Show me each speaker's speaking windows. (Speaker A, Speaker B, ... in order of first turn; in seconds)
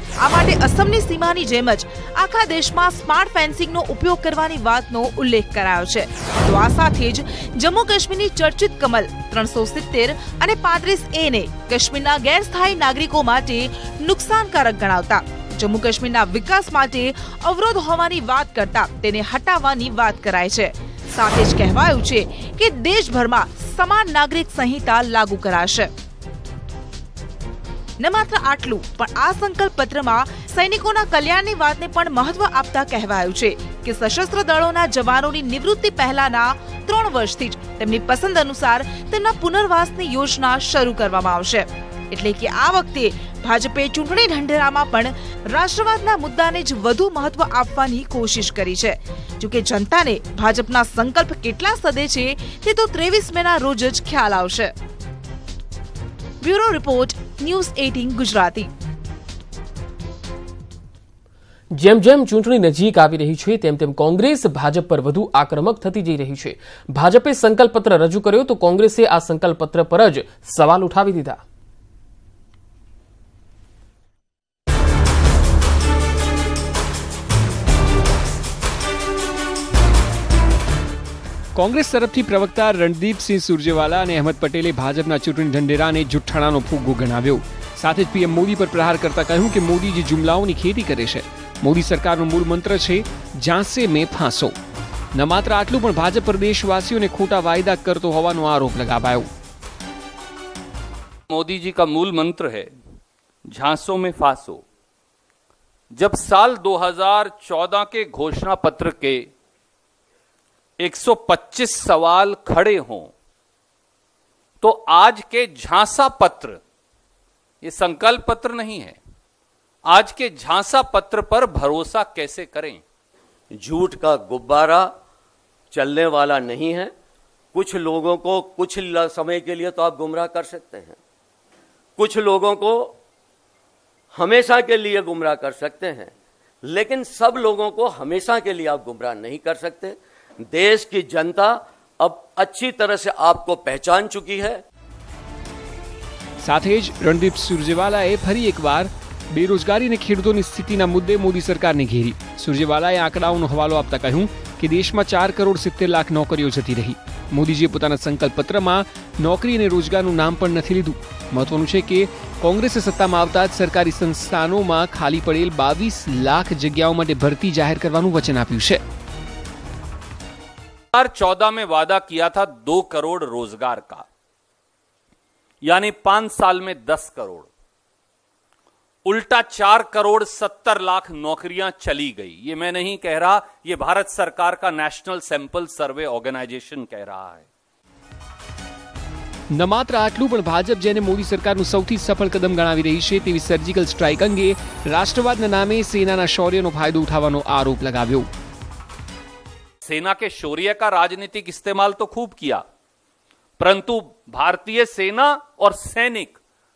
Speaker A: 0.2-25.9, 28.0-54.7, 56.4-58.7
Speaker B: 61.7-71.4
Speaker C: 81.5-94.5, 95.1-99.3, 146.4-168.8, 189.5-198.3
Speaker D: 101.3-102.7, 103.5-104.6, 105.9-109.3, 110.8-113.1, 114.6-116.6, 117.6-119.0, 119.9-122.8, 170.9-174.0, 175.6-177.5, 179.0-187.5, 199.8-202.6, 203.6-206.4
Speaker E: 123.5-124.9, 125.7-126.9, 127.5-131.0, 132.0-132.9, 134.1-136.1, 136.6-144.6